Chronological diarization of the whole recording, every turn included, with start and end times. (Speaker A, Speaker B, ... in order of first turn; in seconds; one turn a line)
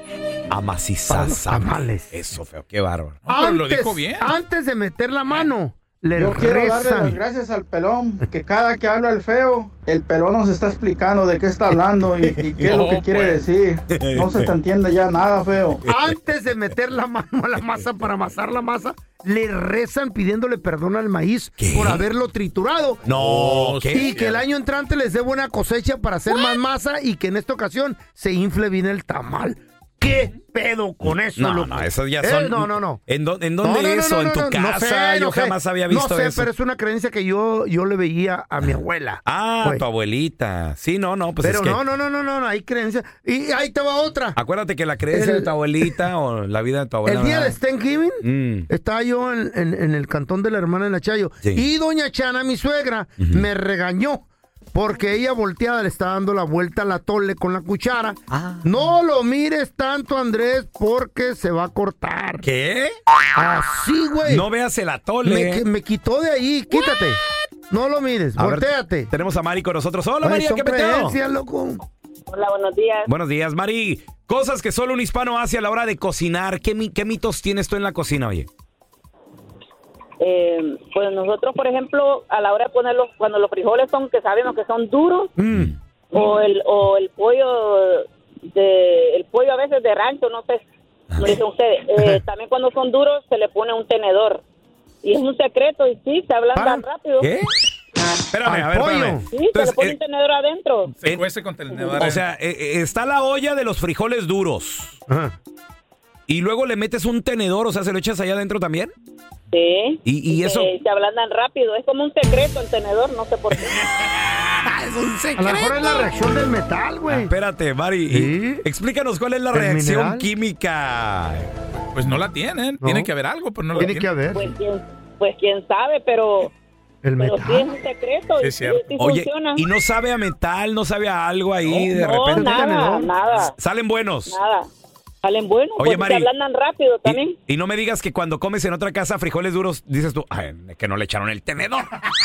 Speaker A: 0.5-3.2
Speaker B: 1.1-2.1
Speaker C: 3.2-4.3
Speaker B: 3.3-7.2
Speaker D: 6.2-15.8
Speaker C: 12.6-13.4
Speaker A: 13.9-14.5
Speaker B: 15.8-23.2
Speaker A: 21.6-22.1
Speaker A: 23.1-24.1
Speaker C: 23.2-24.4
Speaker B: 23.9-33.0
Speaker A: 31.0-36.5
Speaker B: 33.6-39.8
Speaker A: 38.6-41.8
Speaker B: 41.4-44.4
Speaker A: 44.4-47.6
Speaker B: 45.1-45.9
Speaker B: 47.0-62.4
Speaker A: 48.2-48.7
Speaker A: 53.2-53.5
Speaker A: 58.3-58.6
Speaker A: 62.4-63.0
Speaker B: 63.3-64.4
Speaker A: 64.2-65.6
Speaker B: 65.2-69.1
Speaker A: 68.4-71.2
Speaker B: 70.2-71.8
Speaker E: 72.3-73.1
Speaker A: 73.1-78.5
Speaker E: 80.2-85.3
Speaker B: 85.4-85.7
Speaker E: 86.1-90.6
Speaker A: 91.1-91.4
Speaker E: 91.2-94.4
Speaker E: 95.0-97.3
Speaker B: 96.5-96.8
Speaker A: 97.2-97.5
Speaker A: 98.3-100.0
Speaker B: 98.4-99.2
Speaker E: 99.3-100.9
Speaker C: 101.0-102.2
Speaker A: 102.0-105.0
Speaker B: 105.1-105.3
Speaker A: 106.3-108.9
Speaker E: 109.5-113.8
Speaker A: 110.0-110.7
Speaker A: 113.7-116.0
Speaker B: 115.3-117.3
Speaker A: 117.1-121.5
Speaker B: 118.1-118.6
Speaker B: 119.5-120.3
Speaker C: 121.9-124.1
Speaker B: 122.8-123.1
Speaker B: 123.7-124.4
Speaker E: 124.3-126.5
Speaker B: 127.0-127.7
Speaker E: 127.2-129.6
Speaker C: 128.4-128.9
Speaker A: 129.0-132.7
Speaker E: 131.9-133.5
Speaker B: 132.3-133.1
Speaker A: 133.6-134.3
Speaker E: 134.3-134.7
Speaker E: 135.2-137.4
Speaker A: 135.8-136.3
Speaker A: 137.0-141.9